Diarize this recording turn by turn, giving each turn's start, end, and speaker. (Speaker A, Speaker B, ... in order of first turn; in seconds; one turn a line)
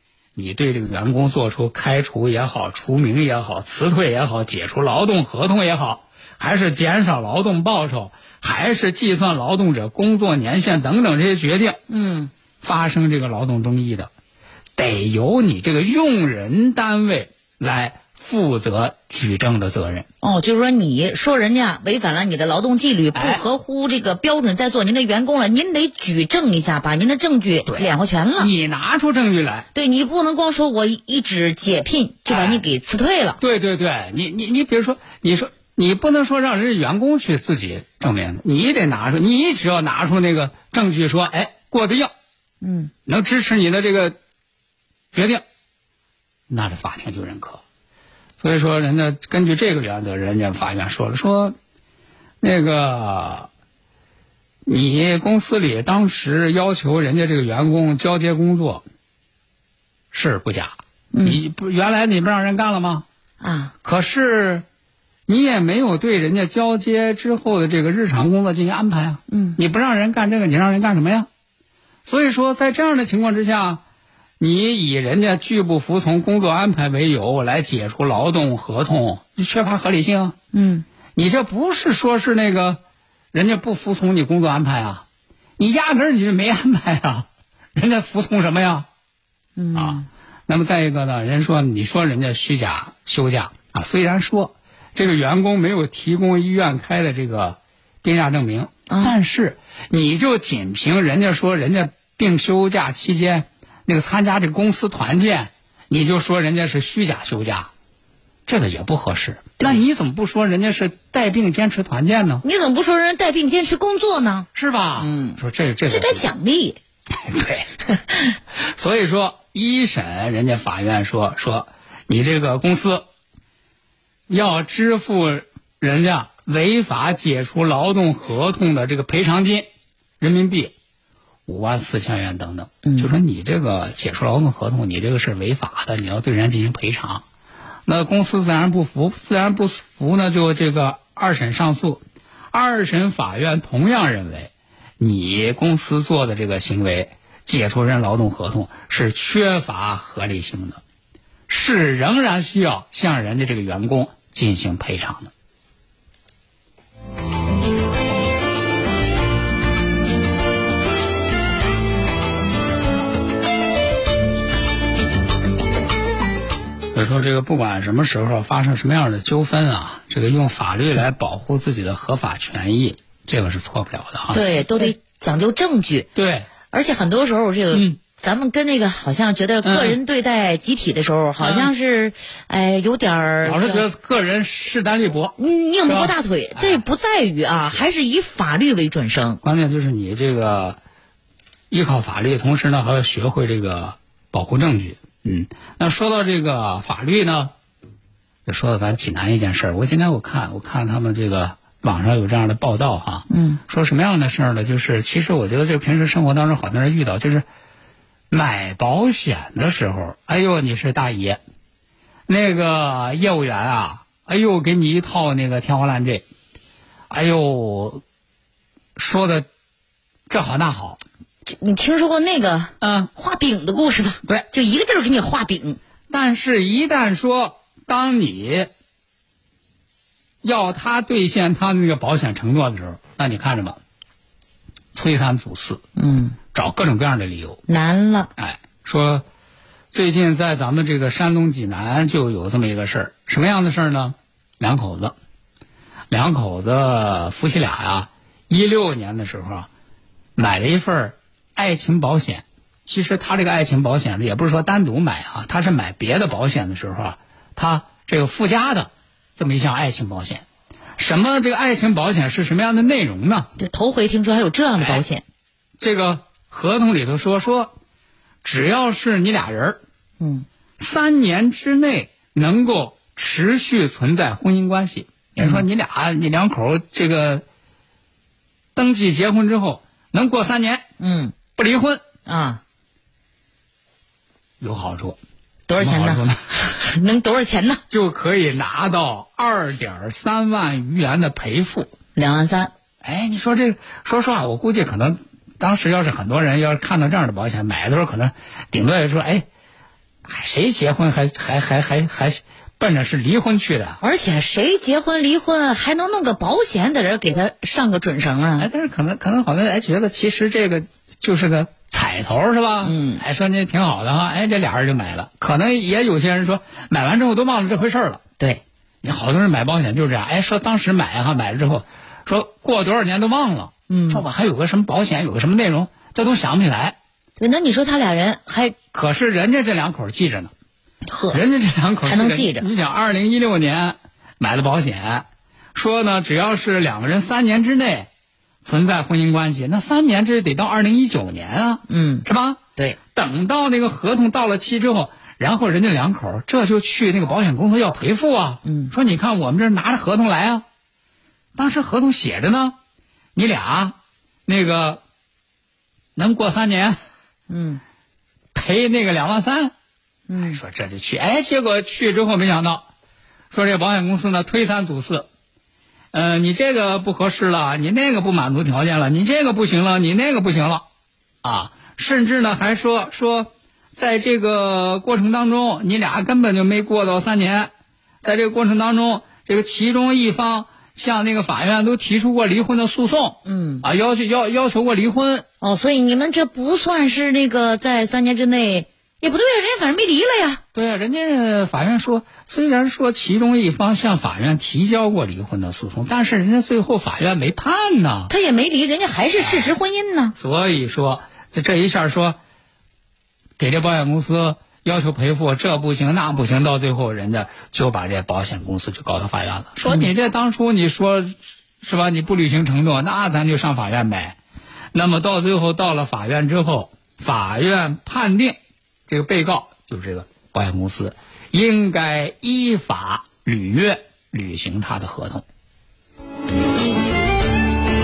Speaker A: 0.3-11.8
Speaker B: 11.9-12.3
Speaker A: 12.6-14.1
Speaker A: 14.8-20.1
Speaker B: 20.2-28.5
Speaker A: 23.1-23.4
Speaker A: 27.7-29.7
Speaker B: 29.7-33.4
Speaker A: 32.3-32.6
Speaker A: 33.4-42.1
Speaker B: 42.6-42.9
Speaker A: 43.0-44.2
Speaker A: 45.1-45.4
Speaker A: 46.5-47.6
Speaker A: 48.4-51.5
Speaker A: 52.4-53.5
Speaker A: 54.6-58.8
Speaker A: 60.1-63.0
Speaker B: 61.1-61.4
Speaker B: 63.4-63.7
Speaker A: 63.8-64.6
Speaker A: 65.3-71.3
Speaker B: 69.3-69.6
Speaker A: 72.0-73.8
Speaker A: 74.4-80.3
Speaker B: 80.5-80.8
Speaker A: 81.1-82.8
Speaker A: 83.3-85.0
Speaker A: 85.6-88.9
Speaker B: 89.6-90.0
Speaker A: 89.7-107.7
Speaker B: 98.9-99.1
Speaker A: 108.5-112.4
Speaker B: 112.4-116.8
Speaker A: 114.5-116.2
Speaker A: 117.2-117.7
Speaker A: 118.7-123.0
Speaker A: 124.3-129.7
Speaker A: 130.2-130.7
Speaker A: 131.5-137.2
Speaker B: 132.8-133.1
Speaker A: 137.9-150.8
Speaker A: 151.5-155.3
Speaker A: 166.9-174.9
Speaker B: 174.3-176.1
Speaker A: 176.1-176.5
Speaker B: 176.7-183.8
Speaker A: 177.7-178.0
Speaker A: 179.6-180.0
Speaker A: 181.4-181.7
Speaker A: 183.4-186.8
Speaker B: 185.4-189.4
Speaker A: 189.4-190.8
Speaker A: 191.7-197.5
Speaker A: 198.4-207.4
Speaker B: 203.3-203.6
Speaker A: 208.3-211.4
Speaker A: 212.3-216.2
Speaker A: 217.1-218.0
Speaker A: 218.9-219.5
Speaker A: 220.3-221.0
Speaker B: 221.4-225.8
Speaker A: 222.8-223.1
Speaker A: 226.1-228.7
Speaker A: 230.4-233.8
Speaker A: 234.9-235.8
Speaker B: 235.9-236.4
Speaker A: 236.5-237.6
Speaker B: 237.7-238.3
Speaker A: 238.4-239.2
Speaker A: 239.9-245.1
Speaker A: 246.1-249.7
Speaker A: 250.3-260.4
Speaker A: 261.0-263.5
Speaker B: 263.6-265.2
Speaker A: 264.8-265.0
Speaker A: 265.8-267.7
Speaker A: 268.4-269.8
Speaker B: 270.2-270.4
Speaker A: 270.8-277.4
Speaker B: 275.4-275.6
Speaker A: 278.8-280.9
Speaker B: 281.0-281.4
Speaker A: 281.5-282.0
Speaker B: 282.2-282.6
Speaker A: 284.6-285.2
Speaker B: 285.7-287.8
Speaker A: 285.8-286.4
Speaker A: 287.9-291.9
Speaker B: 292.1-292.7
Speaker A: 293.0-299.4
Speaker A: 300.2-304.0
Speaker B: 304.0-308.7
Speaker A: 308.6-318.2
Speaker B: 312.8-313.2
Speaker A: 319.0-327.0
Speaker B: 323.9-324.2
Speaker B: 327.4-328.8
Speaker A: 328.9-330.5
Speaker B: 331.1-331.4
Speaker A: 331.3-338.1
Speaker B: 332.0-332.7
Speaker A: 338.6-342.6
Speaker B: 341.9-343.0
Speaker A: 343.1-350.6
Speaker B: 348.6-348.9
Speaker A: 351.5-352.8
Speaker A: 353.3-355.0
Speaker A: 356.1-357.0
Speaker B: 357.5-357.8
Speaker A: 358.5-359.7
Speaker B: 360.3-360.6
Speaker A: 360.4-362.9
Speaker A: 363.5-365.3
Speaker A: 366.1-370.9
Speaker A: 371.4-377.7
Speaker A: 378.2-385.4
Speaker B: 383.4-383.8
Speaker B: 385.6-390.6
Speaker A: 390.7-398.3
Speaker B: 398.3-400.3
Speaker A: 400.4-402.4
Speaker A: 403.6-414.4
Speaker A: 414.9-425.4